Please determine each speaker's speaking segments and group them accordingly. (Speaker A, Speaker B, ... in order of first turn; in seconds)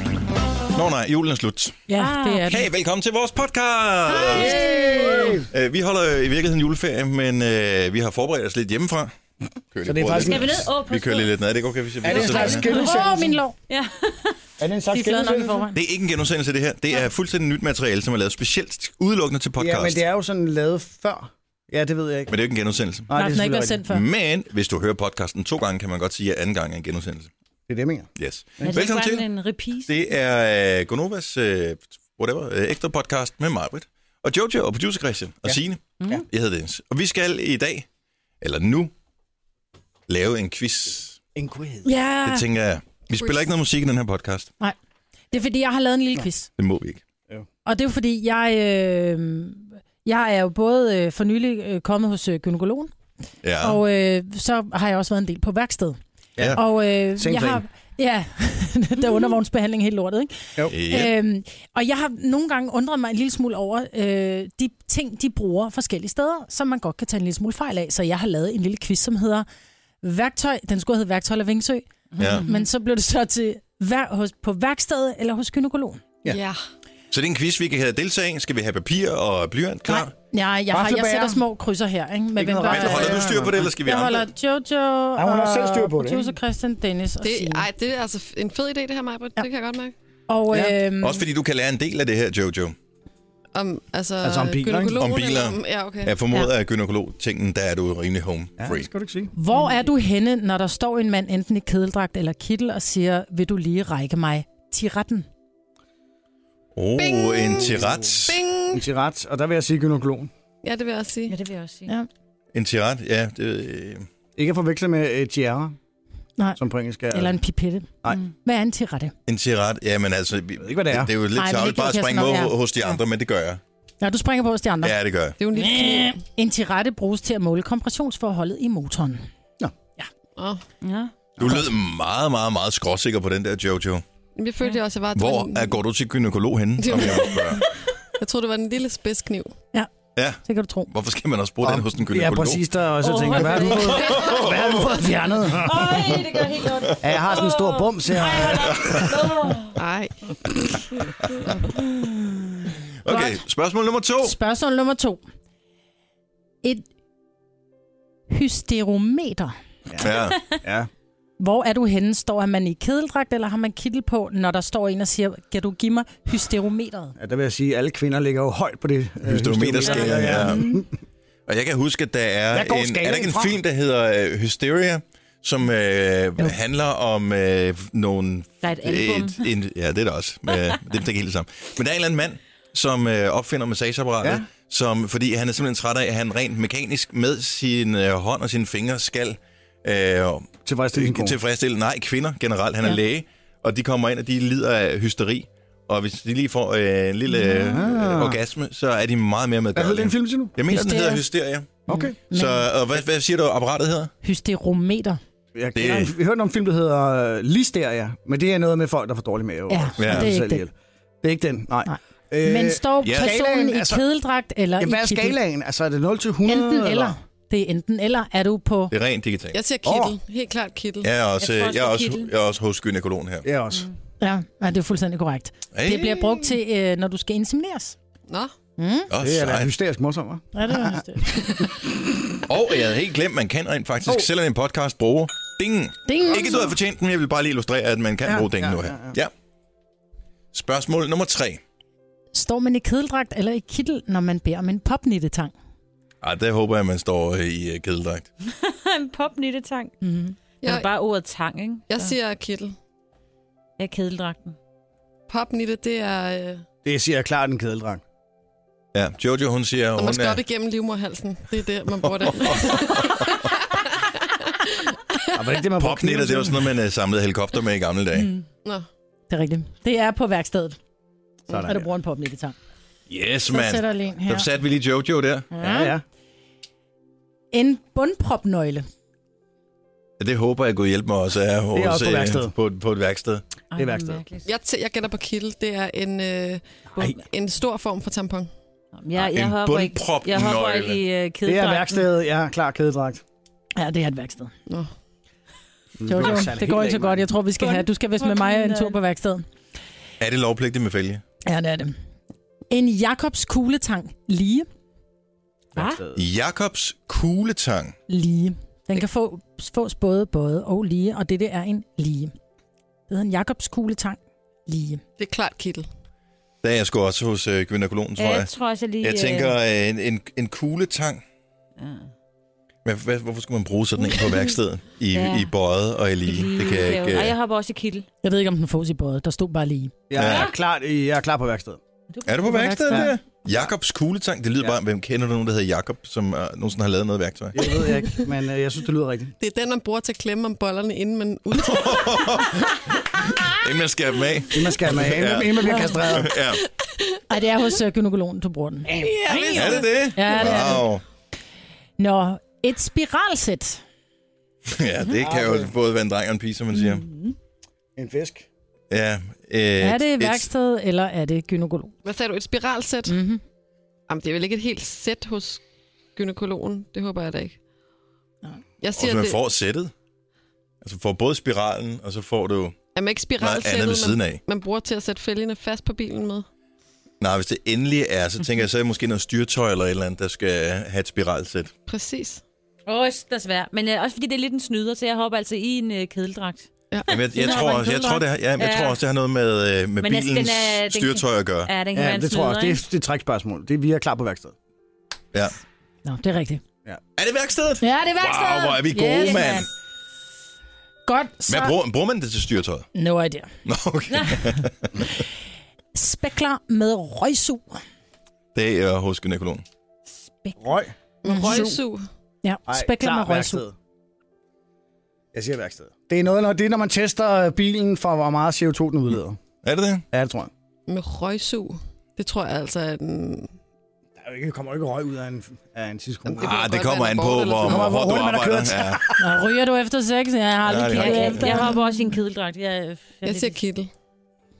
Speaker A: 0.7-1.8, 2.5-4.7, 5.5-9.1, 9.7-12.7, 15.7-20.0, 22.3-23.1, 23.9-27.3, 28.2-29.2, 29.9-37.9, 38.4-38.9, 40.1-41.2, 42.2-44.5, 46.6-47.0, 53.4-53.8, 60.7-61.1, 72.2-72.5, 77.1-80.1, 82.7-84.3, 91.0-92.7, 95.0-98.9, 106.7-108.4, 112.5-114.1, 119.3-123.6, 124.8-125.4, 131.4-134.0, 135.1-137.6, 140.2-142.6, 143.7-144.9, 148.5-149.2, 153.0-154.3, 160.0-160.5, 169.3-170.7, 171.5-204.1, 205.7-206.1, 210.0-210.3, 213.0-213.3, 218.9-219.6, 221.0-223.5, 225.7-226.4, 229.1-229.7, 232.5-239.3, 240.5-241.6, 246.2-248.2, 258.9-260.4, 262.0-263.4, 265.8-268.4, 273.1-275.5, 280.2-283.4, 289.1-291.0, 300.2-301.2, 306.1-307.9, 316.6-321.2, 322.8-327.4, 330.1-330.5, 332.2-338.0, 341.5-346.6, 349.5-351.0, 354.7-357.1, 358.9-360.5, 368.9-369.9, 370.8-372.8, 373.4-374.4, 377.2-381.7, 387.0-391.7, 397.2-399.7, 401.5-402.9, 403.6-405.1, 408.5-409.6, 419.6-420.0, 426.4-429.0, 430.6-431.6
Speaker B: 1.9-2.7, 12.6-13.6, 14.9-15.8, 23.1-24.0, 41.8-42.4, 45.3-46.5, 47.6-52.9, 53.6-56.0, 56.5-69.4, 70.0-76.0, 79.9-87.7, 90.3-91.2, 99.3-105.3, 117.1-119.1, 121.3-122.5, 124.0-125.0, 125.5-129.2, 140.4-140.9, 153.1-153.4, 154.2-155.2, 158.3-159.5, 161.4-167.2, 200.7-202.7, 204.2-205.2, 209.7-210.7, 211.8-215.4, 216.4-218.9, 224.2-227.9, 228.8-229.1, 230.5-231.4, 236.1-236.8, 242.3-245.5, 250.0-250.3, 269.3-270.8, 271.6-272.6, 273.5-274.5, 275.5-275.9, 277.5-278.9, 293.8-294.5, 296.0-299.4, 301.4-301.9, 302.7-304.6, 308.1-312.3, 313.1-315.0, 328.2-329.9, 332.5-333.1, 345.7-346.0, 347.3-350.9, 352.0-353.8, 359.8-361.9, 363.1-363.4, 396.0-396.6, 397.8-399.6, 401.1-401.7, 402.9-403.5, 405.9-407.8, 411.2-411.8, 412.4-413.6, 429.2-432.2
Speaker C: 2.0-2.5, 4.1-5.4, 10.1-11.3, 12.0-13.1, 13.7-14.4, 28.6-29.9, 72.2-72.6, 111.3-111.9, 130.8-131.1, 143.0-144.4, 145.5-149.8, 169.9-170.8, 178.6-179.4, 221.4-222.3, 248.5-249.9, 250.5-252.2, 253.8-254.6, 283.7-284.5, 288.9-292.1, 297.6-299.0, 305.7-306.0, 318.2-319.6, 321.8-322.0, 325.1-325.5, 326.2-328.1, 330.2-330.5, 332.1-332.9, 349.3-349.6, 356.7-357.4, 382.9-386.6, 387.3-389.0, 390.0-392.8, 399.0-399.6, 404.1-404.4, 430.9-433.6
Speaker D: 4.3-5.5, 9.8-10.5, 12.0-13.4, 14.6-15.6, 19.6-22.3, 23.1-23.8, 27.7-28.1, 35.5-36.2, 41.4-41.9, 57.2-57.6, 80.7-81.4, 82.3-83.5, 85.2-86.3, 90.5-90.8, 94.2-95.0, 98.6-99.3, 108.7-110.3, 114.3-115.8, 116.6-117.4, 120.6-121.1, 131.4-131.6, 141.6-146.1, 147.0-148.8, 159.9-160.9, 167.2-170.9, 172.5-173.6, 190.6-191.4, 197.4-198.4, 199.7-200.6, 201.9-202.2, 205.5-214.0, 214.8-217.2, 219.8-220.2, 223.4-223.9, 229.2-231.9, 238.2-239.2, 256.8-258.0, 265.3-266.7, 271.5-271.9, 275.6-276.0, 281.7-282.5, 283.7-284.2, 286.9-287.2, 291.4-293.2, 296.0-297.3, 305.8-306.2, 330.1-331.8, 332.9-333.7, 337.5-339.3, 344.5-346.3, 348.9-349.2, 355.2-355.8, 357.9-358.5, 391.9-394.5, 410.6-411.8, 412.7-413.7, 415.3-419.4, 420.1-420.5, 424.2-426.6, 427.6-429.2
Speaker E: 43.2-43.5, 76.3-76.6, 87.2-89.9, 93.5-96.5, 107.0-108.8, 110.6-111.3, 125.4-126.2, 130.4-130.6, 134.3-135.8, 136.8-137.6, 138.2-139.5, 149.8-150.4, 219.5-221.1, 228.3-228.5, 251.9-252.8, 255.3-256.6, 259.9-263.8, 264.7-265.1, 284.4-288.5, 294.7-294.9, 315.2-315.9, 339.4-342.5, 346.2-346.6, 349.0-349.9, 362.0-363.2, 364.1-365.6, 366.1-367.5, 368.8-369.4, 372.9-376.4, 381.9-382.4, 386.9-387.2, 411.2-412.1, 420.9-423.5, 426.3-427.8, 433.2-433.9